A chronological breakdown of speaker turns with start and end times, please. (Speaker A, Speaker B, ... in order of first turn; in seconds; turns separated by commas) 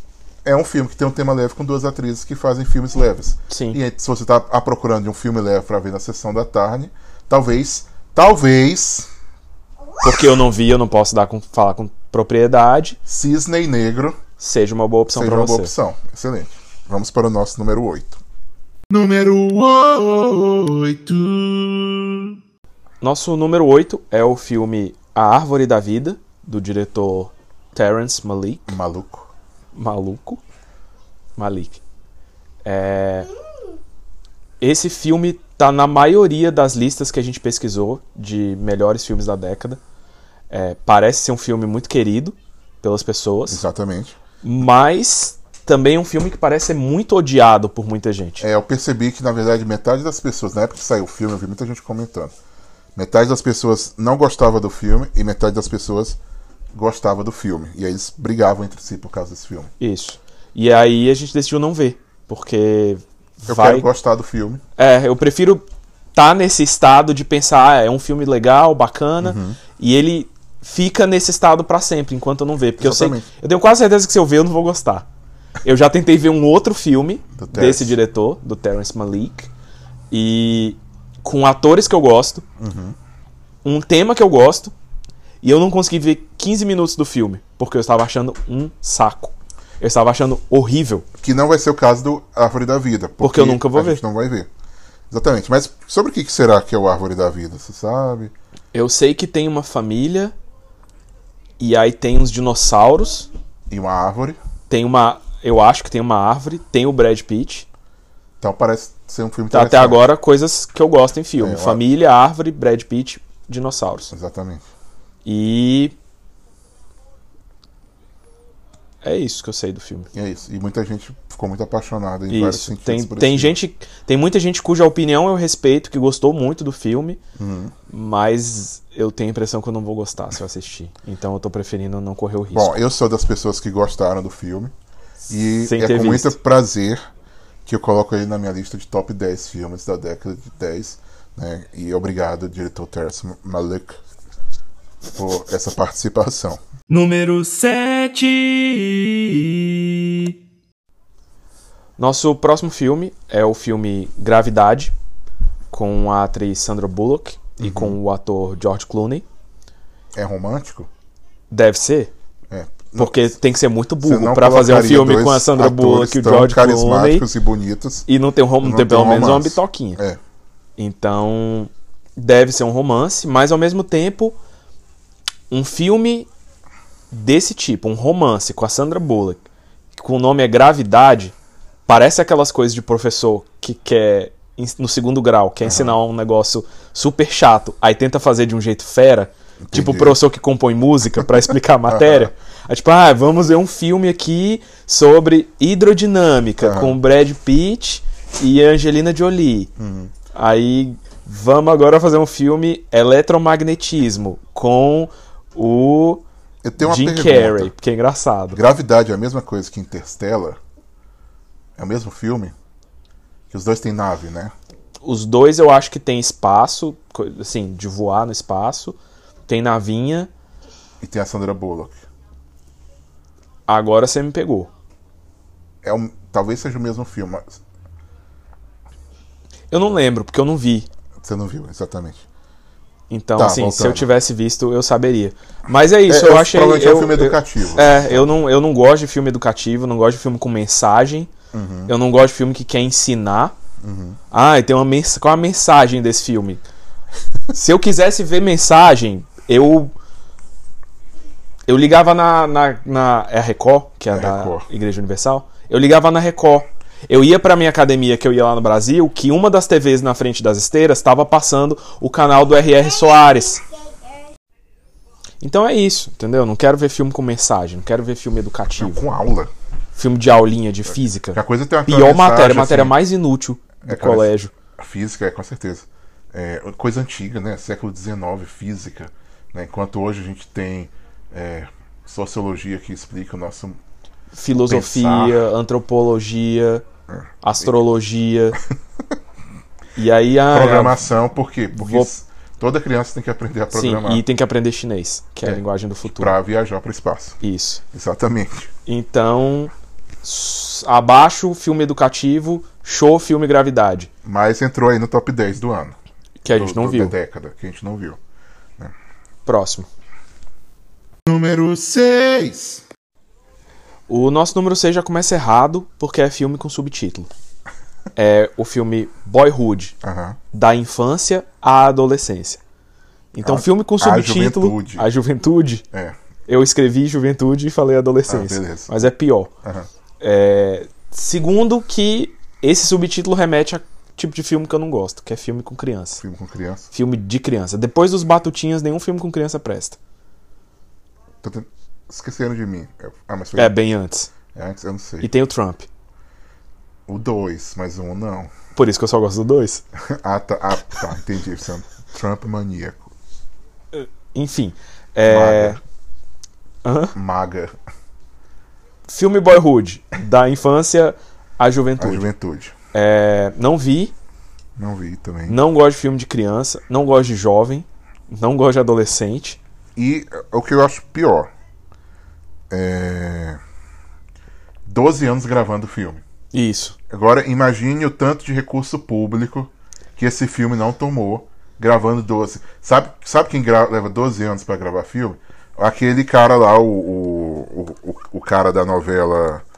Speaker A: 0.4-9.1, Speaker B: 3.5-3.8, Speaker B: 10.0-13.0, Speaker A: 13.1-14.2, Speaker B: 14.4-15.7, Speaker A: 15.1-18.2, Speaker A: 18.9-22.3, Speaker B: 23.0-28.8, Speaker A: 28.7-29.3, Speaker B: 29.8-30.4, Speaker B: 31.4-31.8, Speaker B: 32.6-33.3, Speaker B: 34.6-39.8, Speaker B: 40.5-43.6, Speaker A: 43.5-44.2, Speaker B: 44.4-48.5, Speaker A: 48.4-52.3, Speaker A: 53.0-56.2, Speaker A: 56.7-59.7, Speaker B: 59.8-63.9, Speaker A: 63.5-64.6, Speaker B: 64.8-75.1, Speaker A: 69.2-69.6, Speaker A: 72.8-73.3, Speaker B: 75.6-79.5, Speaker A: 77.3-78.0, Speaker B: 80.1-82.5, Speaker A: 82.6-83.0, Speaker B: 83.6-84.7, Speaker B: 85.4-91.1, Speaker A: 91.2-94.5, Speaker B: 93.2-94.0, Speaker A: 95.1-98.3, Speaker B: 98.7-100.3, Speaker B: 101.6-103.3, Speaker A: 103.7-104.4, Speaker B: 104.7-107.7, Speaker A: 108.4-110.0, Speaker B: 109.5-114.1, Speaker A: 111.4-111.8, Speaker A: 114.1-114.7, Speaker B: 115.3-116.0, Speaker B: 119.0-120.1, Speaker A: 120.1-123.6, Speaker B: 122.3-127.2, Speaker A: 127.4-127.7, Speaker B: 127.9-132.8, Speaker A: 132.5-134.7, Speaker A: 135.3-137.0, Speaker B: 135.6-136.4, Speaker A: 137.7-144.0, Speaker A: 145.1-146.6, Speaker C: 146.9-150.3, Speaker B: 152.0-154.9, Speaker B: 155.7-159.3, Speaker A: 157.6-158.0, Speaker A: 160.1-160.9, Speaker B: 161.5-162.1, Speaker A: 162.5-163.3, Speaker B: 162.9-167.3, Speaker A: 164.0-168.1, Speaker B: 168.1-170.0, Speaker A: 168.6-170.2, Speaker B: 170.8-174.4, Speaker B: 175.5-176.3, Speaker B: 177.1-179.4, Speaker B: 180.0-181.3, Speaker B: 181.9-199.7, Speaker A: 185.6-186.0, Speaker A: 189.6-190.2, Speaker A: 191.9-192.3, Speaker A: 196.6-197.0, Speaker A: 199.8-200.1, Speaker B: 200.3-206.2, Speaker A: 206.6-207.7, Speaker B: 206.8-208.6, Speaker A: 208.5-210.6, Speaker A: 211.8-212.5, Speaker A: 213.5-214.5, Speaker B: 215.0-219.0, Speaker B: 219.5-220.3, Speaker A: 221.0-222.0, Speaker B: 223.7-224.7, Speaker A: 225.8-227.6, Speaker B: 229.7-230.9, Speaker A: 231.2-232.2, Speaker B: 233.1-241.3, Speaker A: 233.4-234.1, Speaker A: 236.1-238.3, Speaker A: 241.5-241.9, Speaker B: 241.9-243.6, Speaker A: 243.8-244.2, Speaker B: 244.3-246.6, Speaker B: 247.5-249.9, Speaker B: 251.7-263.6, Speaker A: 254.1-254.7, Speaker B: 265.4-269.0, Speaker A: 268.8-269.5, Speaker B: 270.0-274.5, Speaker A: 271.3-273.0, Speaker A: 273.9-283.8, Speaker B: 284.3-286.8, Speaker A: 284.7-285.4, Speaker B: 287.4-288.6, Speaker B: 290.0-291.1, Speaker A: 290.5-294.2, Speaker B: 291.7-292.1, Speaker B: 293.7-296.4, Speaker A: 295.4-297.4, Speaker B: 297.4-297.8, Speaker A: 297.9-298.7, Speaker B: 298.9-304.1, Speaker A: 304.2-306.0, Speaker B: 306.4-307.1, Speaker A: 306.5-308.2, Speaker B: 309.5-309.9, Speaker A: 311.3-312.8, Speaker B: 314.1-317.3, Speaker B: 318.2-320.0, Speaker A: 320.0-320.4, Speaker B: 320.5-322.6, Speaker B: 323.3-325.9, Speaker A: 323.4-325.1, Speaker B: 326.5-329.5, Speaker A: 328.3-328.9, Speaker B: 330.2-336.2, Speaker A: 336.2-336.9, Speaker B: 336.9-340.0, Speaker A: 341.4-343.7, Speaker B: 343.6-344.3, Speaker A: 344.5-345.3, Speaker B: 345.2-345.9, Speaker A: 347.1-348.5, Speaker B: 348.8-349.8, Speaker A: 350.0-353.1, Speaker B: 353.9-355.8, Speaker A: 355.3-355.8, Speaker B: 356.9-357.1, Speaker A: 357.1-357.8, Speaker B: 359.1-362.3, Speaker A: 362.0-362.8, Speaker B: 362.9-364.1, Speaker A: 364.8-365.6, Speaker B: 365.5-369.6, Speaker A: 370.0-371.5, Speaker A: 372.7-373.6, Speaker A: 374.9-376.2, Speaker B: 376.5-377.0, Speaker A: 377.1-389.6